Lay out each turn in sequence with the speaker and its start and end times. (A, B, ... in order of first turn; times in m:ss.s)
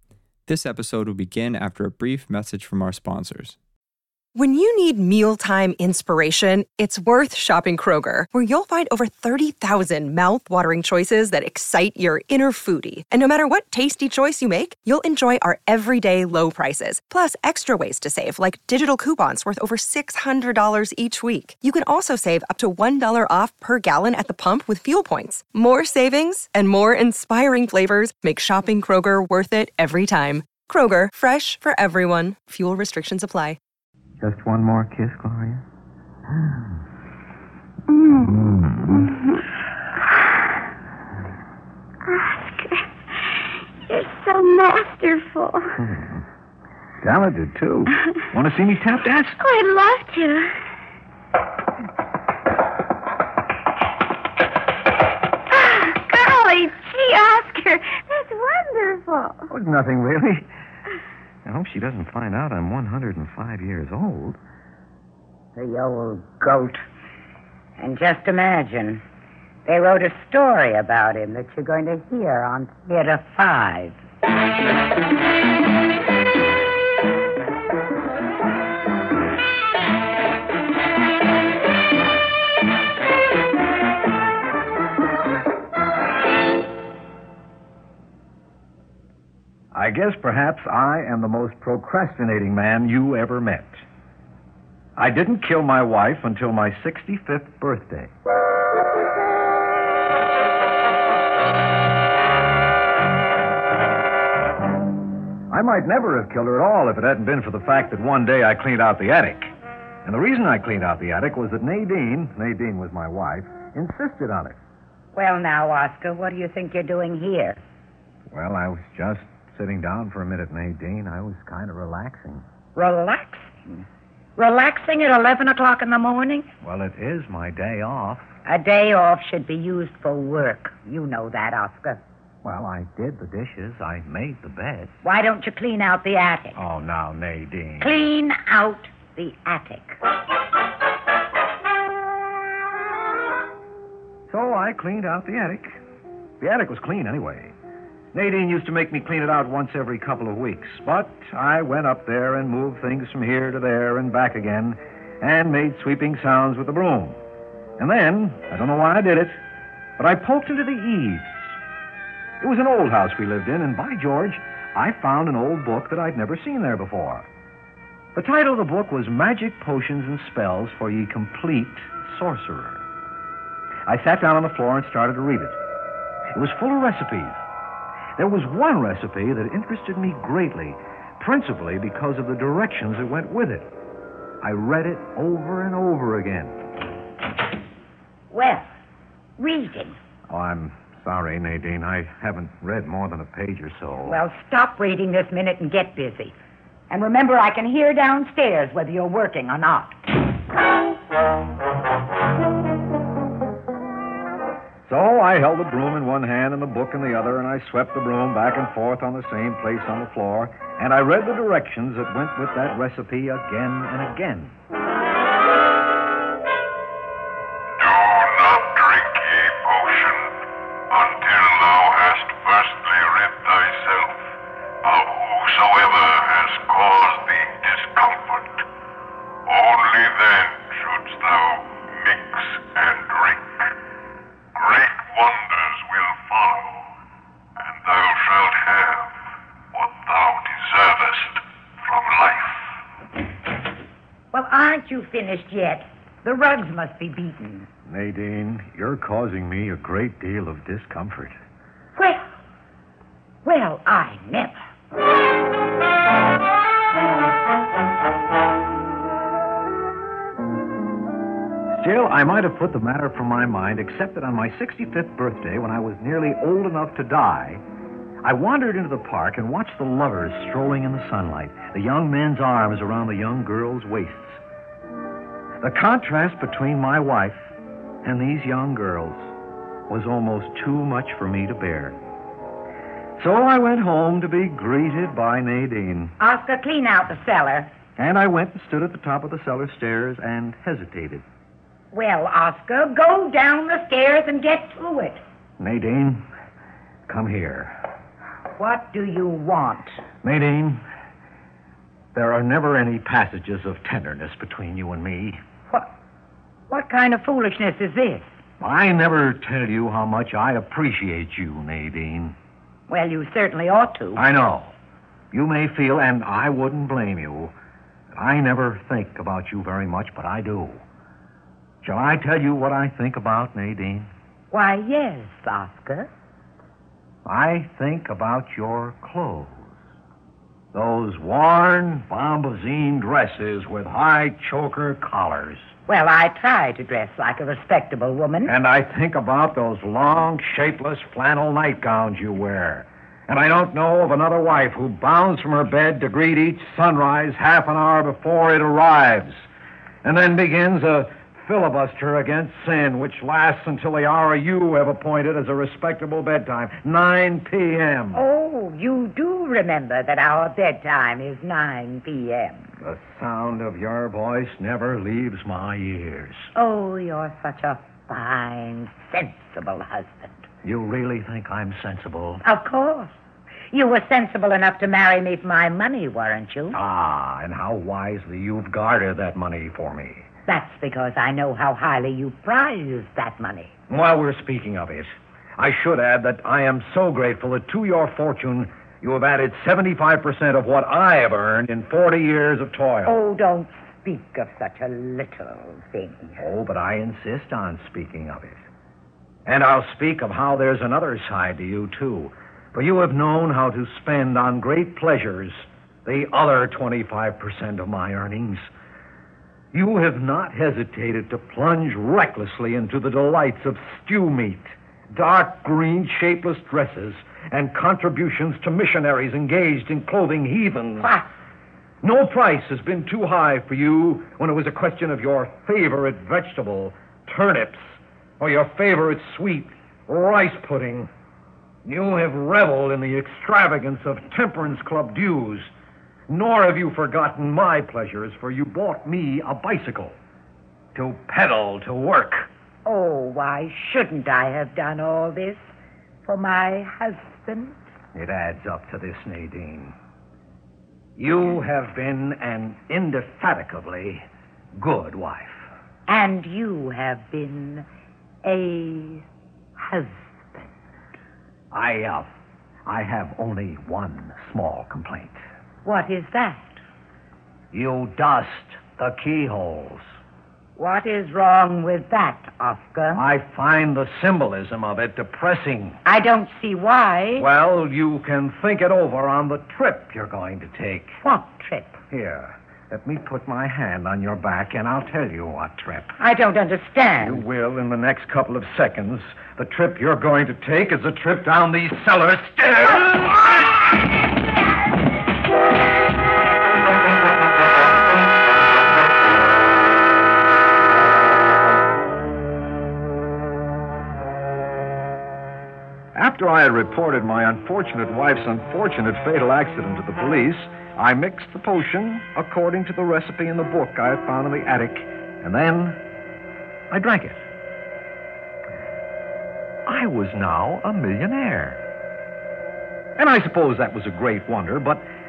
0:00.5-0:03.6 A
0:04.4-0:33.6 B
0:34.2-0:35.6 C
0:38.2-0:39.1 C
0:42.0-0:45.7 D
0:45.8-0:46.2 C
0:47.0-0:49.4 C
0:49.4-0:50.5 D
0:55.5-0:59.5 D
0:59.5-1:00.4 C
1:01.4-1:04.4 C
1:05.6-1:06.8 E
1:07.8-1:09.0 E
1:09.6-1:14.0 E
1:29.7-1:33.8 C
1:35.0-1:38.1 C
1:45.5-1:49.5 C
1:50.0-1:54.6 C
1:55.1-1:57.6 E
1:58.3-2:02.4 C
2:02.7-2:03.8 E
2:04.4-2:06.5 E
2:06.6-2:08.3 C
2:08.4-2:12.0 E
2:12.4-2:14.9 C
2:15.0-2:16.6 E
2:16.5-2:17.9 C
2:17.8-2:20.0 E
2:24.3-2:25.8 C
2:26.4-2:27.5 C
2:28.1-2:37.2 C
2:37.8-2:39.4 C
2:40.0-2:41.6 C
2:42.4-2:47.3 C
2:48.1-2:52.8 C
2:53.9-2:55.6 C
2:56.3-2:57.4 C
2:58.2-3:03.7 C
3:04.4-3:06.6 C
3:08.3-3:08.6 E
3:09.4-3:10.0 E
3:10.3-3:14.2 C
3:14.0-3:16.3 E
3:16.9-3:20.0 E
3:24.9-3:34.5 C
3:37.8-3:40.3 F
3:40.9-3:44.2 F
3:44.8-3:48.6 F
3:49.5-3:53.4 F
3:54.6-3:56.8 F
3:57.7-3:59.1 F
3:59.7-4:02.5 F
4:04.3-4:07.7 E
4:07.9-4:11.4 C
4:12.0-4:12.2 E
4:13.4-4:14.6 E
4:21.8-4:27.6 C
4:28.2-4:34.4 C
4:35.6-4:37.5 C
4:38.0-4:39.2 C
4:39.9-4:42.0 C
4:43.2-4:46.1 C
4:46.2-4:47.7 E
4:48.0-4:51.2 C
4:51.9-4:55.2 E
4:55.6-4:56.2 C
4:57.1-4:57.8 C
4:58.6-4:59.9 E
5:00.2-5:00.8 C
5:02.1-5:05.4 C
5:06.7-5:08.3 E
5:08.6-5:12.4 C
5:12.9-5:14.2 E
5:14.2-5:14.7 C
5:15.3-5:17.5 C
5:18.1-5:20.8 C
5:21.8-5:24.1 C
5:24.5-5:26.1 E
5:27.2-5:29.8 C
5:30.7-5:35.7 C
5:35.9-5:38.5 E
5:38.4-5:49.4 C
5:50.0-5:58.2 C
5:58.1-6:02.6 E
6:02.8-6:06.5 C
6:06.5-6:10.4 E
6:10.6-6:12.4 C
6:12.4-6:13.1 E
6:13.7-6:16.8 E
6:16.7-6:20.2 C
6:20.5-6:23.7 E
6:23.9-6:33.2 C
6:33.0-6:36.4 E
6:36.4-6:38.6 C
6:39.4-6:48.7 C
6:49.7-7:01.1 C
7:01.0-7:01.2 E
7:02.0-7:07.8 C
7:08.4-7:11.1 C
7:11.8-7:15.7 C
7:16.3-7:20.2 C
7:20.9-7:22.5 C
7:22.8-7:25.7 E
7:26.2-7:27.8 E
7:28.1-7:30.0 C
7:31.2-7:34.2 C
7:34.8-7:35.6 C
7:36.1-7:37.9 E
7:38.4-7:39.2 E
7:39.8-7:40.7 E
7:41.7-7:42.3 C
7:42.8-7:45.4 C
7:45.8-7:46.8 E
7:47.7-7:50.0 C
7:50.8-7:53.2 E
7:53.1-7:56.0 C
7:56.0-7:57.5 E
7:57.4-8:01.2 C
8:01.2-8:02.0 E
8:02.1-8:06.2 C
8:06.2-8:07.4 E
8:07.2-8:13.4 C
8:26.1-8:36.0 C
8:36.9-8:37.4 C
8:39.8-8:41.8 C
8:43.2-8:45.0 C